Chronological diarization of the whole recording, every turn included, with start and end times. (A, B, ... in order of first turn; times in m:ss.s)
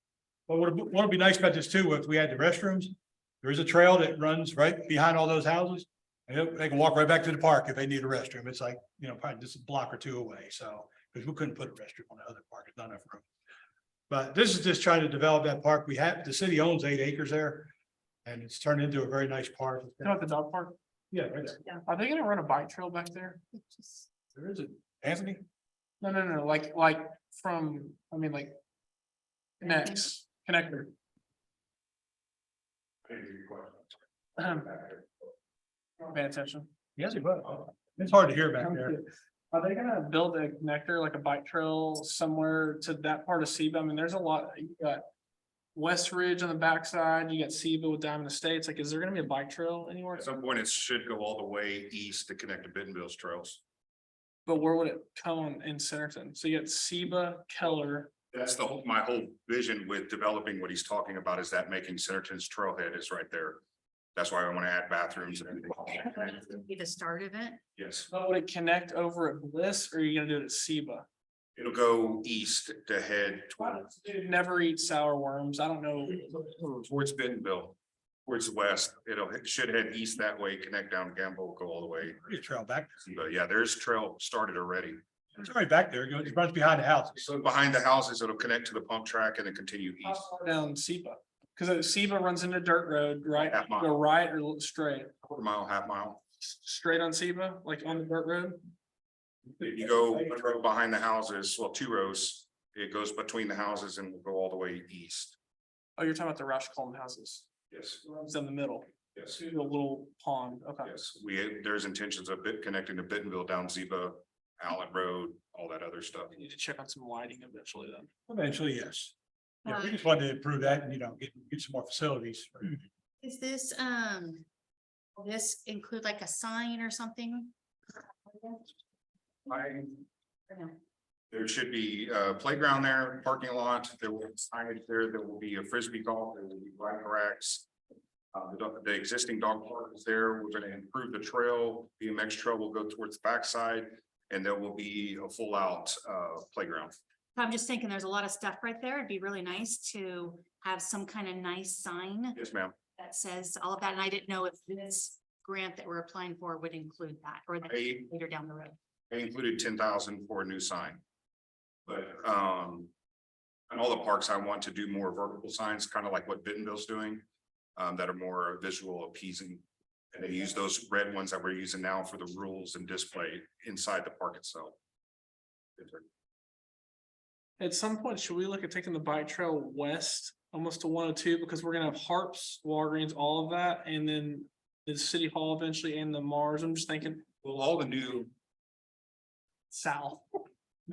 0:00.5-0:13.2 A
0:14.1-0:17.7 A
0:18.2-0:20.2 A
0:20.0-0:20.8 B
0:21.1-0:21.6 A
0:21.8-0:23.4 B
0:23.5-0:24.1 C
0:24.3-0:25.4 A
0:26.0-0:28.6 B
0:29.6-0:30.9 B
0:33.0-0:35.0 D
0:34.4-0:34.7 B
0:36.0-0:36.7 B
0:37.0-0:39.0 A
0:38.6-0:45.0 B
0:45.7-0:50.3 B
0:50.1-0:53.6 D
0:54.4-0:58.1 B
0:58.3-1:03.6 D
1:04.1-1:06.5 D
1:06.0-1:07.6 C
1:07.8-1:08.1 D
1:08.1-1:11.0 B
1:11.6-1:13.9 D
1:13.7-1:16.6 B
1:16.6-1:22.3 D
1:22.2-1:23.0 A
1:23.0-1:25.0 D
1:25.4-1:27.2 A
1:27.1-1:30.3 D
1:30.0-1:35.1 B
1:33.4-1:33.9 D
1:35.2-1:36.2 D
1:36.4-1:38.7 B
1:39.6-1:45.3 D
1:46.0-1:47.5 B
1:47.7-1:48.0 D
1:48.0-1:50.9 B
1:50.8-1:56.3 D
1:56.3-1:58.1 B
1:58.3-1:59.1 A
1:59.6-2:00.0 C
1:59.6-2:02.8 A
2:03.2-2:04.4 C
2:05.2-2:08.7 C
2:09.5-2:09.9 D
2:10.5-2:10.8 C
2:11.3-2:17.6 D
2:18.3-2:27.0 D
2:27.4-2:32.4 C
2:32.3-2:32.7 D
2:33.0-2:38.8 C
2:37.6-2:38.0 D
2:39.1-2:41.0 D
2:41.8-2:42.9 D
2:43.7-2:47.2 D
2:47.8-2:54.8 D
2:55.8-2:56.0 D
2:57.6-3:07.2 B
3:07.4-3:08.3 D
3:09.7-3:10.5 B